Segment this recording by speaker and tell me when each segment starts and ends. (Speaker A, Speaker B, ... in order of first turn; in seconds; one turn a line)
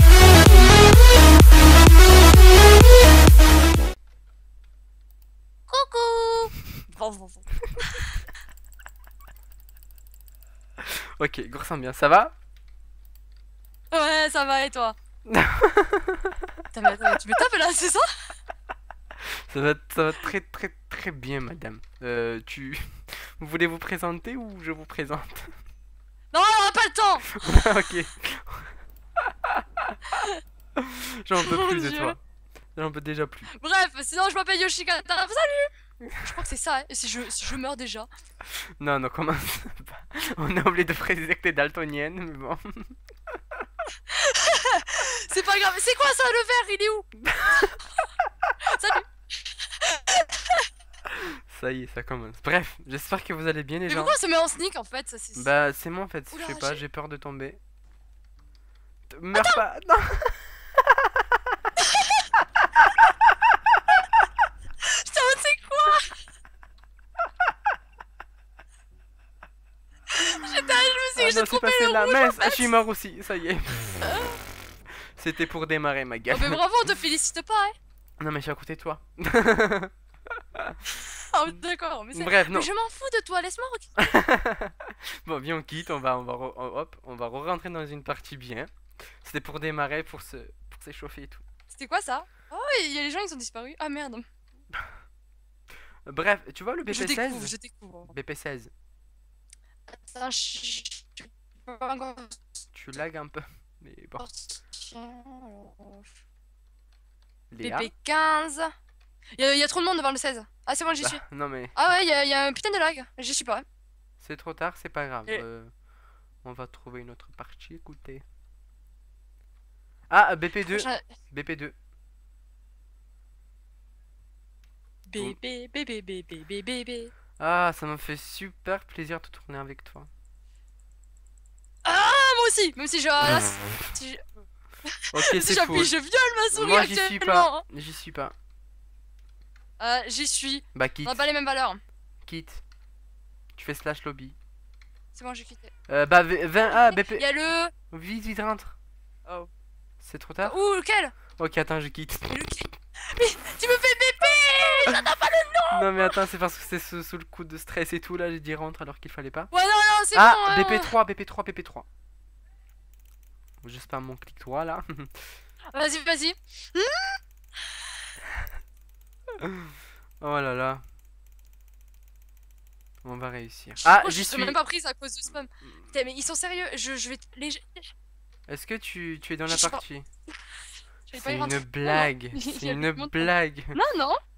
Speaker A: 5.7-8.2
Speaker B: 10.8-12.3
Speaker A: 13.9-15.0
Speaker B: 15.3-16.4
Speaker A: 16.7-18.1
Speaker B: 19.5-25.5
Speaker A: 26.3-27.3
Speaker B: 27.4-30.0
Speaker A: 30.1-30.4
Speaker B: 30.8-32.2
Speaker A: 31.4-32.2
Speaker B: 32.8-33.5
Speaker A: 33.5-38.1
Speaker B: 38.5-43.0
Speaker A: 44.1-48.0
Speaker B: 47.2-47.8
Speaker A: 48.6-50.7
Speaker B: 51.1-54.2
Speaker A: 53.9-55.5
Speaker B: 55.4-57.6
Speaker A: 56.3-56.8
Speaker B: 59.1-61.2
Speaker A: 59.4-59.6
Speaker A: 61.8-62.3
Speaker A: 64.8-66.2
Speaker A: 70.1-72.7
Speaker B: 71.2-74.2
Speaker A: 74.0-74.4
Speaker B: 75.2-76.6
Speaker A: 76.3-77.8
Speaker B: 78.2-79.9
Speaker A: 80.9-84.2
Speaker B: 82.1-82.7
Speaker B: 84.0-91.4
Speaker A: 91.7-94.2
Speaker B: 96.1-97.5
Speaker A: 96.9-98.1
Speaker B: 98.1-98.7
Speaker A: 100.0-102.5
Speaker B: 102.7-104.2
Speaker A: 104.2-106.1
Speaker B: 107.5-107.9
Speaker A: 107.6-108.7
Speaker A: 109.4-111.2
Speaker B: 111.0-111.8
Speaker A: 111.8-113.7
Speaker B: 114.2-115.7
Speaker B: 116.4-118.2
Speaker B: 120.1-121.8
Speaker A: 120.7-121.0
Speaker A: 125.1-127.1
Speaker B: 127.4-130.1
Speaker A: 131.8-134.2
Speaker A: 134.9-137.6
Speaker B: 135.1-135.9
Speaker B: 136.5-138.3
Speaker A: 139.8-141.8
Speaker B: 140.8-141.2
Speaker B: 142.3-142.6
Speaker B: 143.6-144.4
Speaker A: 145.2-145.7
Speaker B: 145.9-147.2
Speaker A: 146.6-147.7
Speaker B: 147.9-148.8
Speaker B: 150.0-150.6
Speaker A: 150.4-151.2
Speaker B: 151.4-152.4
Speaker A: 152.3-156.2
Speaker B: 155.7-159.5
Speaker A: 159.5-160.9
Speaker B: 160.1-161.9
Speaker B: 163.6-165.3
Speaker A: 165.7-167.2
Speaker B: 169.4-170.8
Speaker B: 173.0-174.6
Speaker A: 173.8-177.9
Speaker B: 178.5-180.1
Speaker A: 179.5-179.8
Speaker A: 181.1-184.2
Speaker B: 181.1-183.8